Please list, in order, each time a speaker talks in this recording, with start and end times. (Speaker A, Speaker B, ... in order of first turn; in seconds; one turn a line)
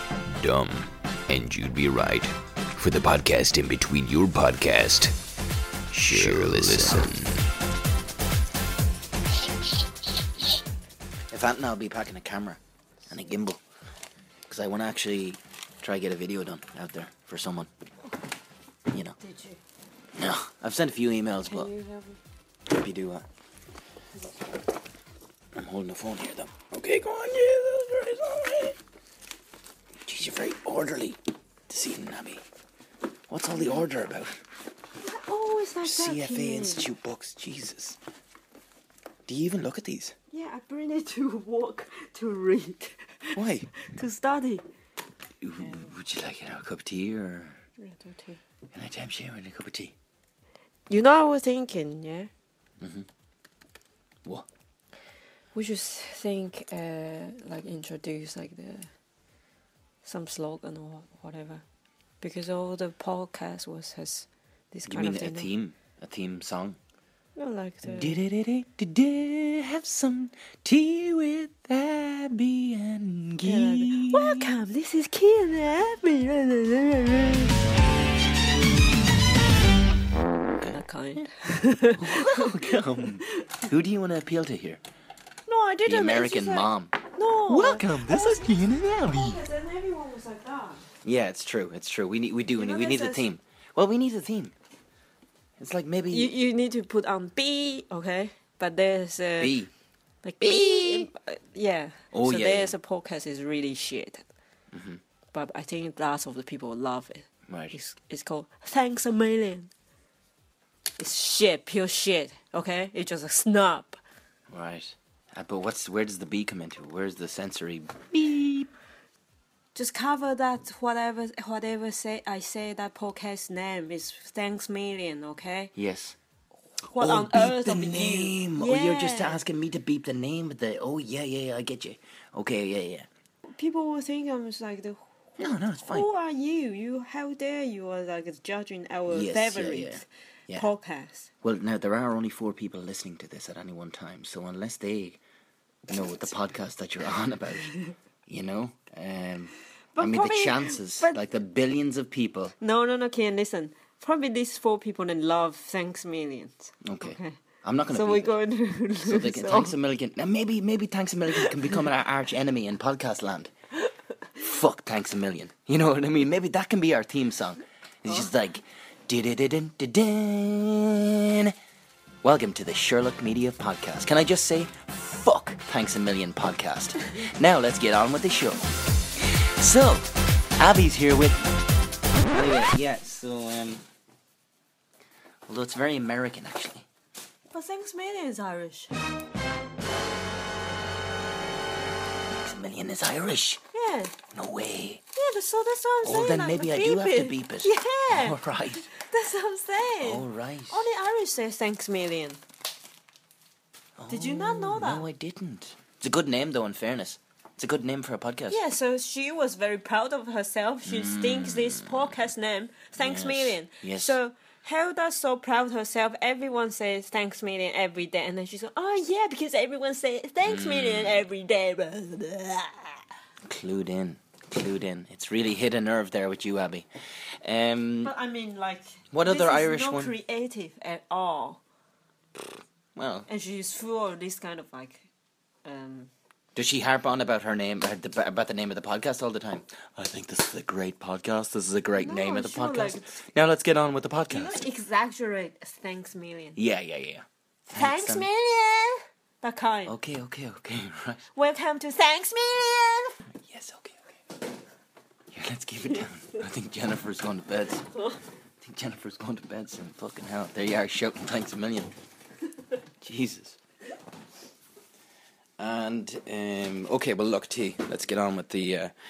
Speaker A: 0.4-1.9
Speaker B: 1.3-2.3
Speaker A: 2.8-5.1
Speaker B: 2.8-3.3
Speaker B: 4.0-5.1
Speaker B: 5.9-7.3
Speaker A: 5.9-7.3
Speaker B: 11.3-13.6
Speaker B: 14.5-17.7
Speaker B: 18.9-19.1
Speaker C: 19.2-19.6
Speaker B: 20.1-21.7
Speaker C: 21.4-22.2
Speaker B: 22.7-23.2
Speaker B: 25.6-28.8
Speaker B: 30.0-32.4
Speaker B: 33.3-34.4
Speaker C: 35.0-36.9
Speaker B: 35.8-38.0
Speaker B: 39.3-40.1
Speaker C: 40.3-44.6
Speaker B: 43.3-43.7
Speaker B: 45.4-47.6
Speaker C: 45.6-45.9
Speaker C: 47.8-48.4
Speaker B: 48.7-49.9
Speaker C: 50.9-52.3
Speaker B: 52.8-53.1
Speaker C: 55.5-58.9
Speaker C: 60.0-61.6
Speaker C: 62.2-65.5
Speaker B: 64.9-66.8
Speaker C: 67.3-68.2
Speaker B: 67.8-74.5
Speaker C: 73.4-77.5
Speaker C: 80.7-83.5
Speaker B: 81.9-84.8
Speaker C: 85.5-90.8
Speaker B: 85.8-89.4
Speaker B: 91.0-94.5
Speaker C: 92.5-93.3
Speaker B: 95.6-96.3
Speaker C: 96.1-99.6
Speaker B: 99.4-99.7
Speaker C: 100.2-104.2
Speaker B: 100.4-101.1
Speaker B: 102.1-102.8
Speaker B: 104.7-105.0
Speaker C: 105.3-109.7
Speaker B: 107.5-107.8
Speaker C: 111.0-114.0
Speaker B: 114.5-118.7
Speaker C: 119.7-125.7
Speaker B: 125.7-126.2
Speaker C: 126.8-129.4
Speaker B: 127.0-133.1
Speaker C: 133.5-135.0
Speaker B: 135.4-136.1
Speaker C: 135.8-141.3
Speaker B: 139.1-140.7
Speaker B: 141.4-145.2
Speaker B: 145.9-152.5
Speaker C: 149.9-151.2
Speaker C: 152.6-159.8
Speaker B: 156.8-158.4
Speaker B: 159.0-163.5
Speaker C: 161.3-161.8
Speaker B: 164.3-171.5
Speaker B: 172.2-181.5
Speaker B: 182.1-183.8
Speaker B: 185.5-186.8
Speaker C: 187.5-189.0
Speaker B: 192.4-193.6
Speaker C: 193.7-194.2
Speaker B: 194.3-195.0
Speaker C: 195.1-202.4
Speaker B: 196.0-198.9
Speaker B: 200.0-200.9
Speaker B: 204.0-208.6
Speaker C: 204.1-205.0
Speaker C: 208.5-223.0
Speaker B: 210.8-212.2
Speaker B: 212.9-214.2
Speaker B: 220.4-221.2
Speaker B: 223.4-226.9
Speaker B: 227.4-228.1
Speaker C: 228.0-231.6
Speaker B: 229.1-230.2
Speaker B: 232.9-233.3
Speaker C: 233.3-235.1
Speaker C: 235.6-236.1
Speaker B: 236.6-244.6
Speaker C: 241.9-243.2
Speaker C: 244.3-246.6
Speaker B: 246.6-248.3
Speaker C: 247.7-249.9
Speaker B: 249.8-251.3
Speaker C: 251.3-253.2
Speaker B: 253.4-254.1
Speaker B: 255.3-257.8
Speaker C: 257.8-258.2
Speaker B: 258.6-261.9
Speaker B: 263.0-263.6
Speaker B: 265.6-268.9